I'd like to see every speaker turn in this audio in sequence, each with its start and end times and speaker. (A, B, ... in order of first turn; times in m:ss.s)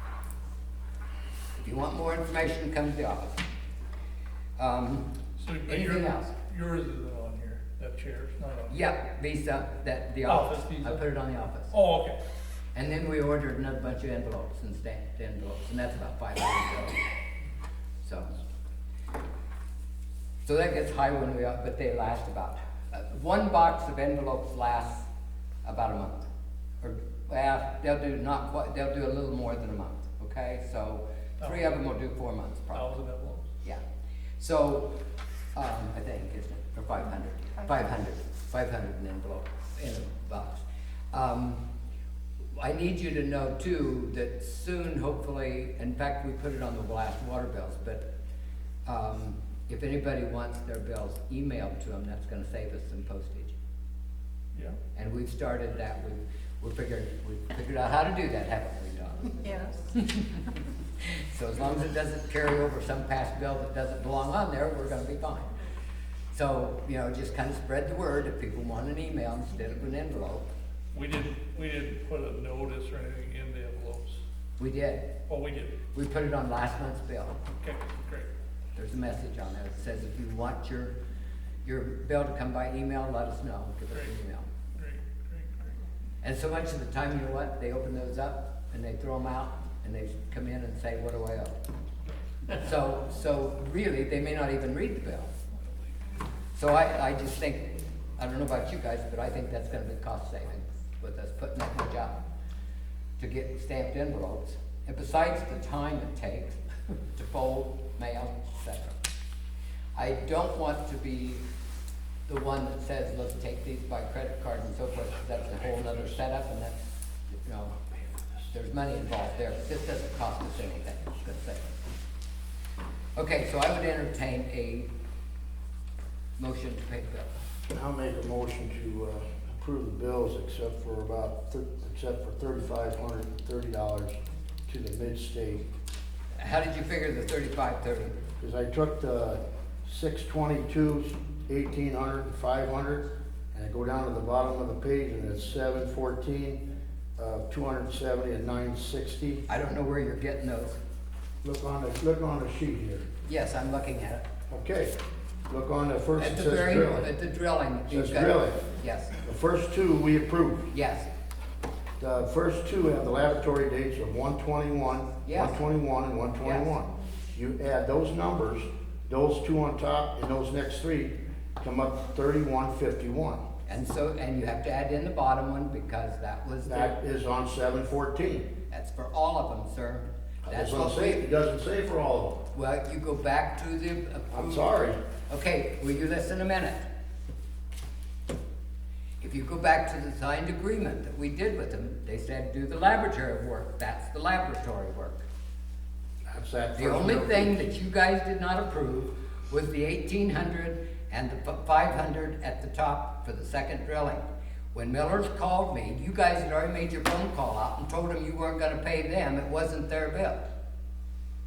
0:01.6-0:03.4 A
0:04.6-0:05.1 A
0:05.4-0:08.8 B
0:05.7-0:06.3 A
0:08.7-0:11.7 A
0:10.2-0:11.0 B
0:11.7-0:12.2 B
0:12.7-0:17.0 A
0:18.0-0:18.3 A
0:20.4-0:25.1 A
0:25.6-0:26.3 A
0:26.8-0:32.9 A
0:31.4-0:31.8 B
0:32.7-0:33.5 B
0:34.4-0:34.9 A
0:35.5-0:41.6 A
0:42.5-0:48.0 A
0:48.8-0:53.5 A
0:54.9-1:00.4 A
1:01.0-1:05.5 A
1:06.3-1:10.5 A
1:10.9-1:14.2 B
1:14.6-1:15.1 A
1:15.3-1:15.7 B
1:15.9-1:17.4 A
1:17.6-1:18.3 B
1:18.7-1:20.9 A
1:21.6-1:24.5 A
1:24.7-1:25.7 B
1:26.2-1:31.5 A
1:32.5-1:35.3 A
1:36.6-1:42.2 A
1:43.2-1:46.6 A
1:47.1-1:49.0 A
1:50.0-1:51.4 A
1:52.3-1:56.8 A
1:57.3-1:57.7 A
1:58.5-2:01.7 A
2:03.2-2:04.9 A
2:06.4-2:07.3 A
2:07.7-2:15.6 C
2:16.4-2:18.1 A
2:18.4-2:26.6 C
2:27.2-2:29.4 C
2:29.5-2:30.8 A
2:31.4-2:33.1 C
2:33.2-2:34.2 A
2:34.5-2:34.9 C
2:35.5-2:37.1 C
2:36.2-2:39.1 A
2:37.9-2:38.6 C
2:39.2-2:40.7 C
2:40.7-2:41.1 A
2:42.0-2:53.4 C
2:45.2-2:45.6 A
2:46.4-2:46.7 A
2:53.6-2:56.9 A
2:56.6-2:58.5 C
2:58.7-3:01.2 A
3:00.4-3:02.4 C
3:02.5-3:04.7 A
3:04.3-3:05.0 C
3:05.3-3:06.8 A
3:09.2-3:15.2 A
3:16.3-3:17.7 C
3:16.8-3:30.5 A